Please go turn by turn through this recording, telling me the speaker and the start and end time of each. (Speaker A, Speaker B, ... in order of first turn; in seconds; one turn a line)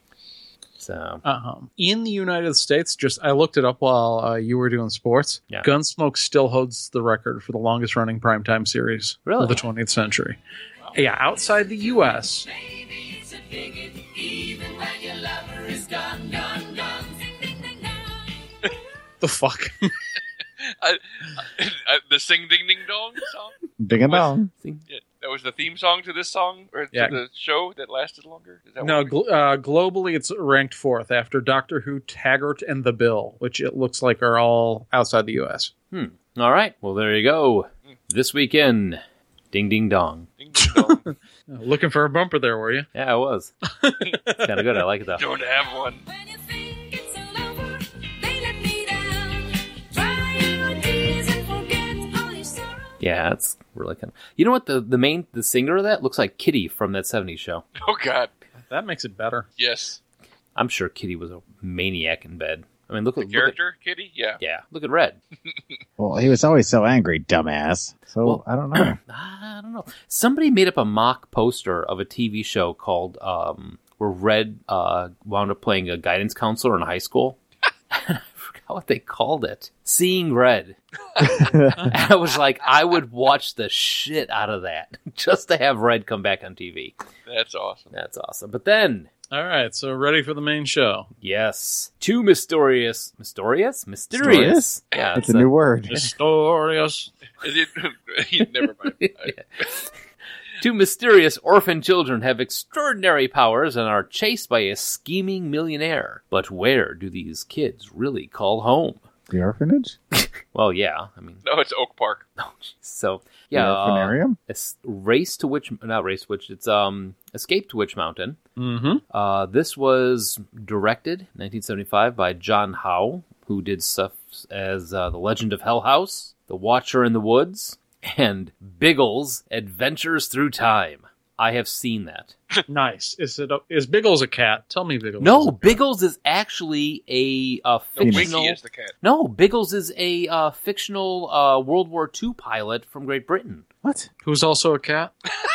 Speaker A: 0.8-1.2
Speaker B: 1.2-10.4
Speaker A: 9.2-9.6
Speaker B: 10.9-12.5
Speaker C: 12.5-18.2
Speaker B: 19.2-19.9
Speaker D: 20.8-24.3
Speaker E: 23.8-24.5
Speaker D: 24.9-29.1
Speaker B: 26.9-27.2
Speaker B: 28.8-35.7
Speaker A: 35.9-40.3
Speaker D: 40.4-41.0
Speaker B: 40.6-42.9
Speaker A: 42.9-43.5
Speaker B: 43.8-44.6
Speaker A: 44.4-45.2
Speaker D: 45.2-46.0
Speaker C: 46.0-52.9
Speaker A: 53.0-57.6
Speaker D: 57.8-58.3
Speaker B: 58.7-59.5
Speaker D: 59.6-60.0
Speaker A: 60.5-63.5
Speaker D: 63.2-64.4
Speaker A: 64.4-65.2
Speaker E: 66.0-69.0
Speaker A: 68.2-77.4
Speaker A: 77.9-86.9
Speaker E: 81.4-81.7
Speaker D: 87.3-87.9
Speaker A: 87.9-89.1
Speaker B: 89.3-91.1
Speaker A: 91.2-95.5
Speaker E: 94.1-96.1
Speaker B: 95.9-97.1
Speaker D: 97.4-99.3
Speaker A: 98.8-99.9
Speaker A: 100.6-109.0
Speaker E: 109.3-110.0
Speaker A: 110.1-111.4
Speaker D: 111.4-112.2
Speaker A: 112.4-118.4
Speaker E: 113.5-114.4
Speaker B: 118.6-119.0
Speaker A: 119.1-132.3
Speaker B: 132.7-135.8
Speaker A: 135.2-143.7
Speaker D: 138.0-138.9
Speaker E: 138.0-138.3
Speaker E: 143.8-144.1
Speaker B: 144.2-145.1